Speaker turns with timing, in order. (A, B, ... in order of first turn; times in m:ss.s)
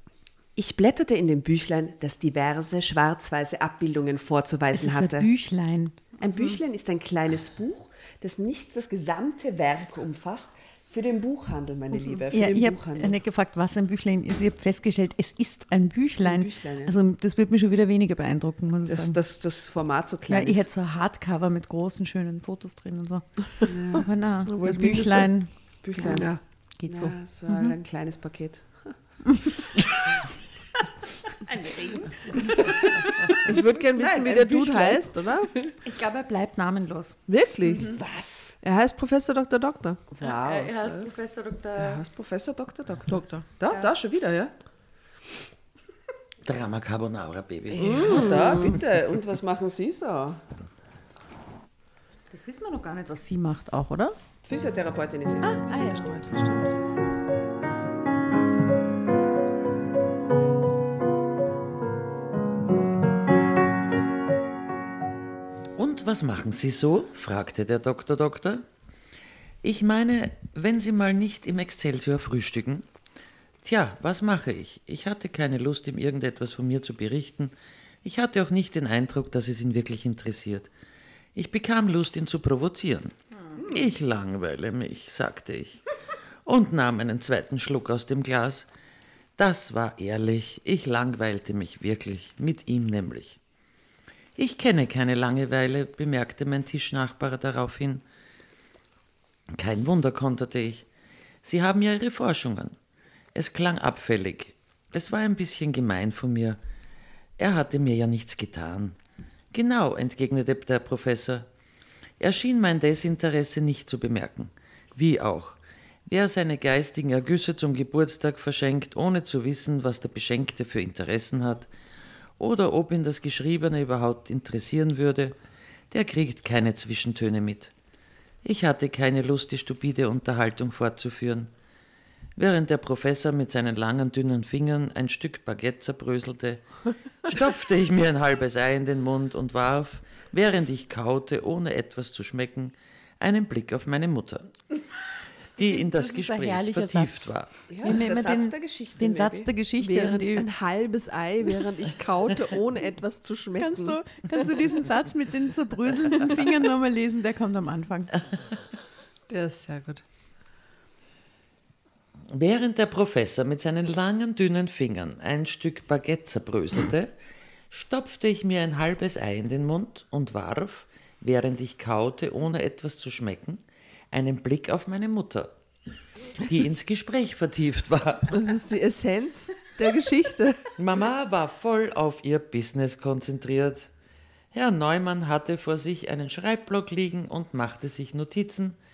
0:00.6-0:05.3 A
0:04.7-0:06.0 B
0:06.2-0:13.1 A
0:12.3-0:19.2 B
0:16.2-0:16.9 A
0:18.9-0:20.6 A
0:20.3-0:26.3 B
0:23.7-0:24.1 A
0:24.5-0:25.3 C
0:25.8-0:29.0 A
0:26.0-0:26.4 C
0:26.8-0:27.7 B
0:31.5-0:32.6 B
0:32.4-0:32.7 A
0:33.4-0:35.5 C
0:34.0-0:35.7 A
0:35.8-0:37.2 B
0:37.3-0:37.9 C
0:37.7-0:38.6 A
0:37.7-0:38.0 B
0:38.6-0:40.0 C
0:40.1-0:41.1 A
0:40.2-0:42.0 B
0:41.8-0:44.5 A
0:43.1-0:43.4 C
0:46.4-0:48.6 D
0:47.8-0:48.8 C
0:47.8-0:50.4 A
0:52.3-0:54.2 B
0:54.4-0:56.2 A
0:55.4-0:56.6 B
1:05.8-1:08.6 D
1:09.6-1:12.8 D
1:13.6-1:20.7 D
1:21.3-1:25.8 D
1:26.4-1:28.7 D
1:29.4-1:33.4 D
1:34.4-1:38.0 D
1:39.5-1:40.8 D
1:41.4-1:42.8 D
1:43.3-1:46.6 D
1:47.4-1:49.0 D
1:49.5-1:51.5 D
1:52.2-2:01.7 D
2:02.4-2:05.4 D
2:05.9-2:07.7 D
2:08.4-2:11.5 D
2:12.4-2:16.6 D
2:17.2-2:24.5 D
2:25.6-2:27.5 D
2:25.6-2:30.5 B
2:27.7-2:29.5 A
2:29.8-2:34.0 C
2:33.6-2:38.1 B
2:39.3-2:40.0 C
2:42.3-2:47.1 D
2:47.7-2:55.5 D
2:56.4-2:58.3 D
2:58.3-3:00.6 C
3:00.8-3:03.9 D
3:04.5-3:08.8 D